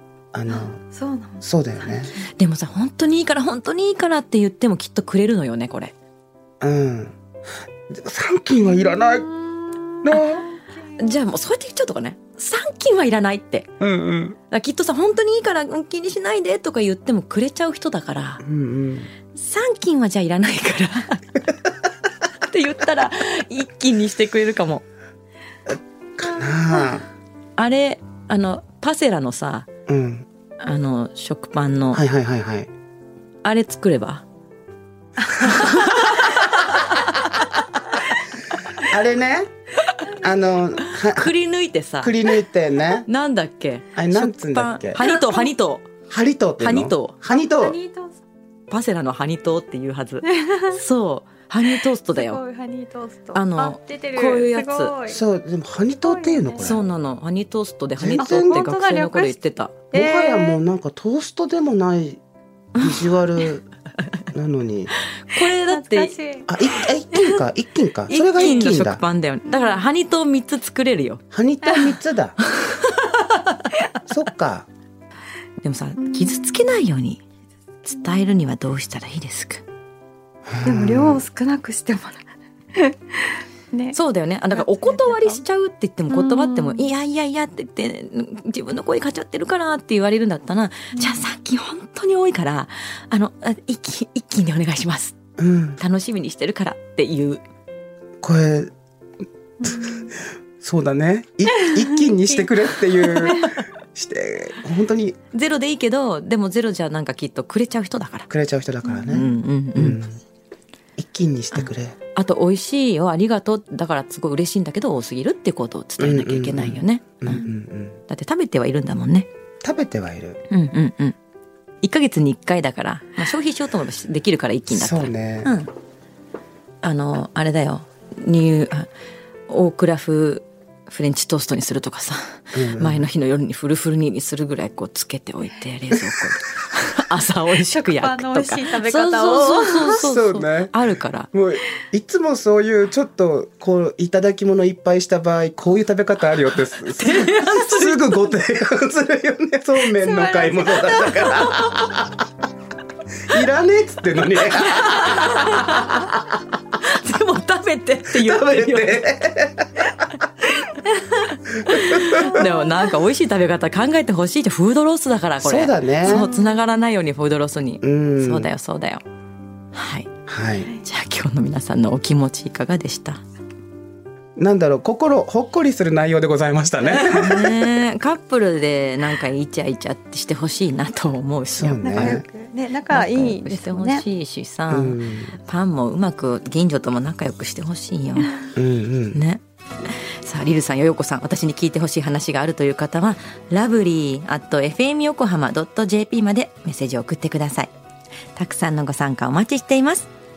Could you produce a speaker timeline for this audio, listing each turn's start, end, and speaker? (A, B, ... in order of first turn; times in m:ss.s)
0:00.3-0:00.8 A
0:00.9-0:01.4 B
0:01.4-0:02.1 A
0:02.4-0:05.9 C
0:06.6-0:07.2 A
0:07.9-0:09.3 A
0:08.8-0:11.0 B
0:10.0-0:10.5 A
0:11.0-0:13.7 C
0:13.8-0:14.4 A
0:14.5-0:18.4 C
0:18.4-0:19.1 A
0:19.3-0:21.4 C
0:22.4-0:24.8 C
0:25.7-0:27.1 A
0:27.6-0:29.7 C
0:29.9-0:30.3 A
0:30.6-0:32.0 C
0:31.9-0:32.7 A
0:33.4-0:34.2 C
0:35.3-0:37.2 C
0:38.8-0:39.5 A
0:40.1-0:41.3 A
0:41.1-0:42.1 C
0:42.0-0:43.1 A
0:43.0-0:46.1 C
0:44.0-0:45.1 A
0:46.1-0:47.8 A
0:46.6-0:47.2 C
0:47.3-0:48.2 B
0:48.7-0:52.4 C
0:50.2-0:50.8 B
0:52.1-0:55.2 B
0:53.3-0:55.0 C
0:55.1-0:56.8 A
0:56.0-0:56.8 B
0:56.6-0:59.8 C
0:58.0-0:58.7 A
0:58.2-0:59.4 B
0:59.9-1:00.6 B
0:59.9-1:02.2 A
1:02.8-1:03.7 A
1:04.3-1:04.9 A
1:05.2-1:06.2 C
1:05.7-1:06.5 B
1:06.5-1:09.0 A
1:08.1-1:11.2 C
1:11.3-1:12.4 A
1:11.6-1:11.9 B
1:12.5-1:13.1 C
1:14.1-1:14.7 A
1:15.6-1:17.2 C
1:17.8-1:19.6 C
1:20.5-1:21.2 A
1:20.6-1:24.0 B
1:23.9-1:35.2 C
1:24.5-1:25.4 B
1:26.1-1:26.9 B
1:31.0-1:31.2 B
1:35.4-1:35.8 A
1:35.8-1:37.4 C
1:38.2-1:38.7 A
1:39.6-1:45.2 A
1:45.3-1:48.3 C
1:48.3-1:50.2 A
1:49.1-1:50.0 C
1:51.0-1:52.0 A
1:51.5-1:57.5 C
1:56.0-1:58.0 A
1:58.1-1:59.3 C
1:59.6-2:00.4 A
2:00.5-2:01.2 C
2:01.8-2:05.7 C
2:04.7-2:05.5 A
2:06.8-2:08.9 C
2:09.5-2:21.3 C
2:12.5-2:13.1 A
2:17.7-2:19.9 B
2:19.8-2:20.7 A
2:21.3-2:32.2 A
2:26.9-2:28.2 C
2:30.0-2:31.6 B
2:33.3-2:35.9 A
2:34.6-2:36.2 C
2:36.7-2:39.1 C
2:38.1-2:39.9 A
2:40.7-2:49.0 C
2:41.6-2:42.4 A
2:45.4-2:46.4 A
2:47.8-2:48.5 A
2:49.7-2:50.1 C
2:50.3-2:50.7 A
2:50.7-2:53.2 C
2:54.4-2:57.7 A
2:56.8-3:02.2 C
3:01.5-3:02.2 A
3:01.8-3:04.0 B
3:02.9-3:08.4 C
3:04.7-3:05.4 A
3:08.6-3:09.2 A
3:09.1-3:17.7 C
3:18.4-3:20.1 C